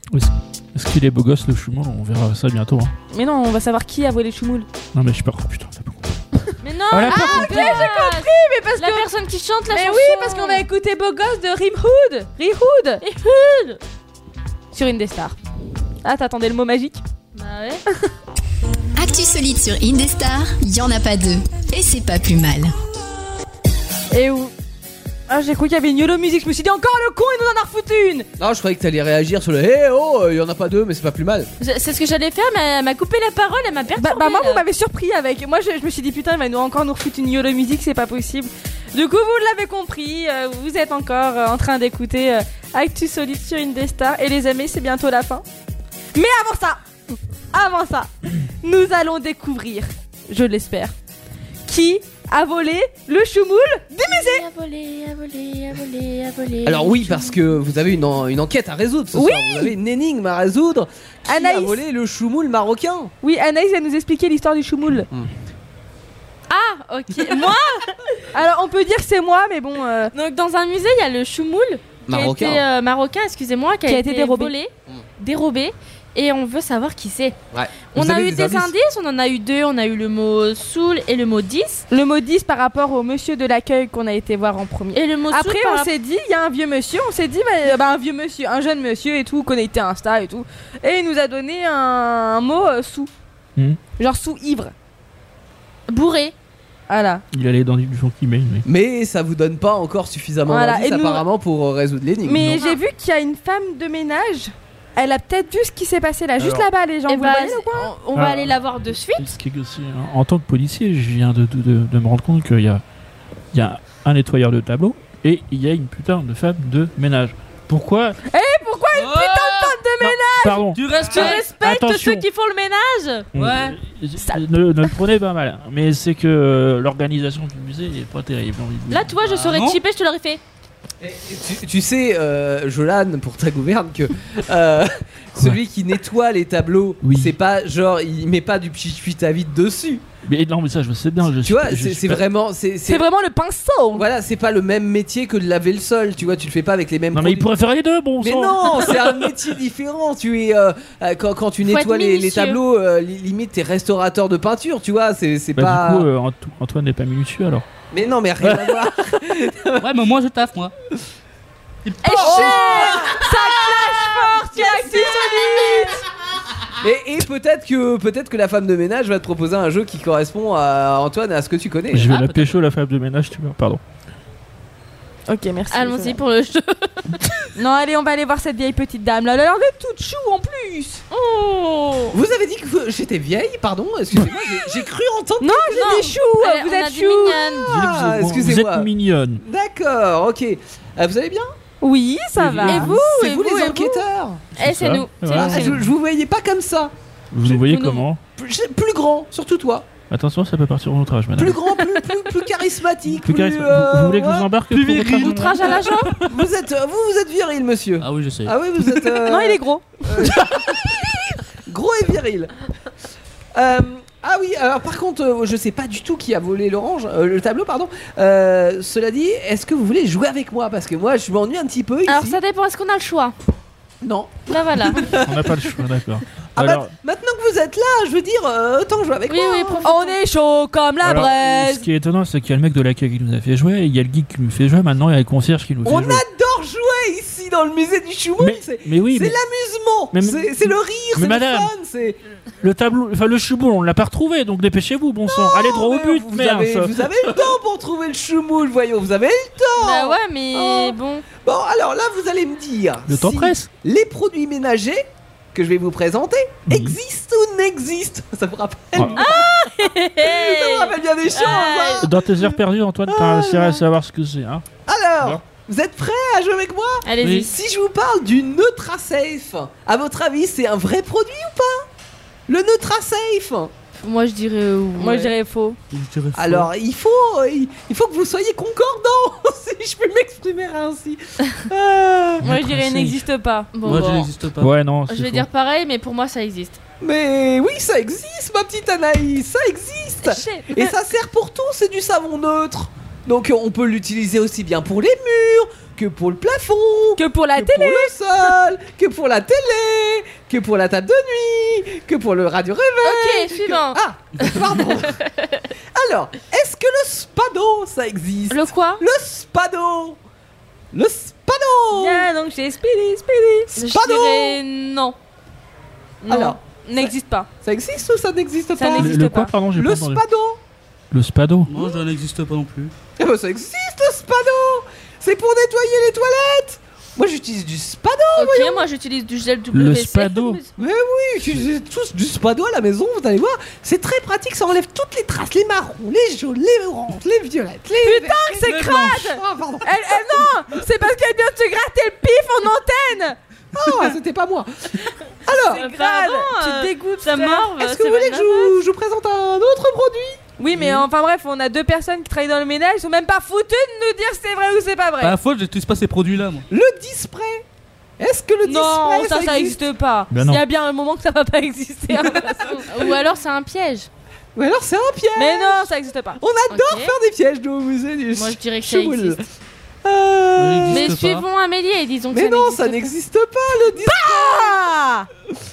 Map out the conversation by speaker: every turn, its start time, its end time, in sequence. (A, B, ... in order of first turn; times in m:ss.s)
0:00.1-0:02.9 A
0:03.1-0:04.7 B
0:04.9-0:06.1 A
0:06.6-0:10.7 C
0:06.9-0:07.9 A
0:07.0-0:09.1 B
0:09.7-0:13.0 B
0:13.0-0:13.8 C
0:14.7-0:15.4 B
0:16.0-0:17.0 B
0:17.3-0:17.8 C
0:19.0-0:22.7 D
0:24.1-0:24.5 B
0:25.3-0:28.3 B
0:28.4-0:31.5 E
0:31.6-0:34.6 C
0:34.0-0:45.4 B
0:46.1-0:46.8 B
0:47.5-0:48.1 B
0:48.6-0:50.9 B
0:51.7-0:54.4 B
0:54.0-0:57.4 C
0:56.6-1:03.1 E
0:59.1-0:59.7 B
1:01.3-1:01.8 B
1:03.2-1:05.1 B
1:06.5-1:08.0 C
1:08.3-1:10.1 B
1:10.1-1:17.4 C
1:12.0-1:12.6 E
1:13.8-1:14.5 B
1:17.5-1:18.7 E
1:17.9-1:21.8 C
1:21.9-1:33.1 B
1:24.9-1:25.9 C
1:34.0-1:34.7 B
1:35.9-1:36.3 C
1:36.9-1:37.2 B
1:37.3-1:38.6 A
1:38.6-1:42.6 E
1:40.5-1:41.2 B
1:42.2-1:47.9 B
1:42.5-1:42.8 C
1:46.4-1:46.7 A
1:47.1-1:49.3 C
1:48.1-1:48.6 A
1:49.2-1:52.8 A
1:53.5-1:58.2 A
1:58.3-2:01.4 B
1:58.9-1:59.8 F
2:00.0-2:02.2 A
2:00.7-2:01.4 F
2:01.0-2:03.3 C
2:03.3-2:09.2 A
2:03.4-2:03.8 F
2:04.2-2:04.9 B
2:08.9-2:10.4 C
2:09.2-2:09.8 F
2:11.0-2:20.0 E
2:17.0-2:17.3 A
2:20.2-2:22.2 A
2:21.4-2:23.1 E
2:22.9-2:24.0 B
2:23.9-2:27.5 E
2:27.1-2:29.1 A
2:28.2-2:36.1 E
2:31.6-2:32.6 C
2:35.6-2:37.6 A
2:37.9-2:39.9 E
2:38.4-2:38.8 A
2:39.8-2:40.7 F
2:41.8-2:42.6 F
2:42.0-2:46.0 B
2:42.2-2:43.9 E
2:44.6-2:45.5 E
2:44.6-2:44.9 C
2:46.8-2:52.1 E
2:51.9-2:53.8 A
2:52.2-2:52.5 C
2:55.3-2:56.2 B
2:55.7-2:57.2 C
2:57.6-3:01.0 B
3:01.1-3:02.2 C
3:02.1-3:06.1 E
3:05.4-3:07.6 B
3:05.7-3:07.7 C
3:07.7-3:09.4 A
3:07.7-3:11.5 E
3:11.8-3:13.1 B
3:12.5-3:14.5 E
3:12.6-3:14.0 C
3:14.6-3:15.8 C
3:14.6-3:15.7 A
3:15.3-3:16.9 E
3:17.3-3:18.2 A
3:17.5-3:18.0 C
3:18.4-3:19.9 E
3:20.1-3:21.6 A
3:21.4-3:24.5 E
3:23.2-3:25.8 A
3:24.7-3:25.8 F
3:25.2-3:26.2 C
3:26.1-3:32.5 E
3:28.0-3:28.5 F
3:29.2-3:30.0 B
3:33.5-3:42.4 E
3:42.1-3:43.3 C
3:44.0-3:45.7 E
3:44.5-3:45.1 C
3:45.1-3:46.9 A
3:46.6-3:49.9 E
3:49.3-3:50.2 C
3:49.8-3:51.9 B
3:51.0-3:56.2 A
3:55.8-4:02.2 E
3:58.4-3:59.3 A
4:00.1-4:01.7 A
4:02.6-4:07.4 A
4:05.3-4:23.8 E
4:09.8-4:11.2 C
4:13.1-4:13.7 A
4:16.7-4:17.0 A
4:18.9-4:19.2 A
4:19.1-4:22.1 C
4:22.0-4:24.6 A
4:24.8-4:31.9 E
4:27.0-4:27.5 C
4:32.5-4:33.7 E
4:34.0-4:35.3 C
4:35.0-4:35.8 B
4:35.9-4:36.7 F
4:36.3-4:42.4 E
4:42.4-4:43.2 A
4:42.4-4:43.7 B
4:43.7-4:44.3 C
4:43.8-4:44.7 F
4:44.6-4:45.5 A
4:45.1-4:46.8 C
4:47.0-5:05.2 E
4:50.2-4:50.9 B
4:57.2-4:58.1 B
5:03.0-5:04.0 C
5:05.2-5:05.6 C
5:05.9-5:10.2 E
5:08.5-5:09.0 C
5:10.9-5:12.3 E
5:11.9-5:13.7 B
5:13.7-5:14.6 E
5:13.7-5:15.2 C
5:16.2-5:17.5 B
5:16.3-5:20.6 E
5:18.8-5:19.5 B
5:19.0-5:20.2 A
5:21.1-5:21.7 A
5:21.7-5:22.9 F
5:23.2-5:28.9 E
5:28.4-5:30.7 C
5:29.7-5:30.6 A
5:30.8-5:40.7 E
5:38.0-5:43.4 B
5:38.6-5:39.3 F
5:43.7-5:45.8 E
5:45.6-5:48.7 C
5:45.7-5:47.7 B
5:47.7-5:50.9 E
5:50.6-5:55.3 B
5:55.2-5:56.7 F
5:56.7-5:57.6 E
5:58.2-5:59.8 E
5:58.6-6:02.9 B
6:00.3-6:00.6 A
6:02.9-6:04.1 C
6:04.5-6:09.4 E
6:05.4-6:06.4 B
6:06.7-6:07.1 C
6:08.3-6:09.4 C
6:10.0-6:11.2 E
6:10.6-6:11.4 F
6:10.9-6:13.1 C
6:12.3-6:15.3 E
6:14.0-6:14.9 B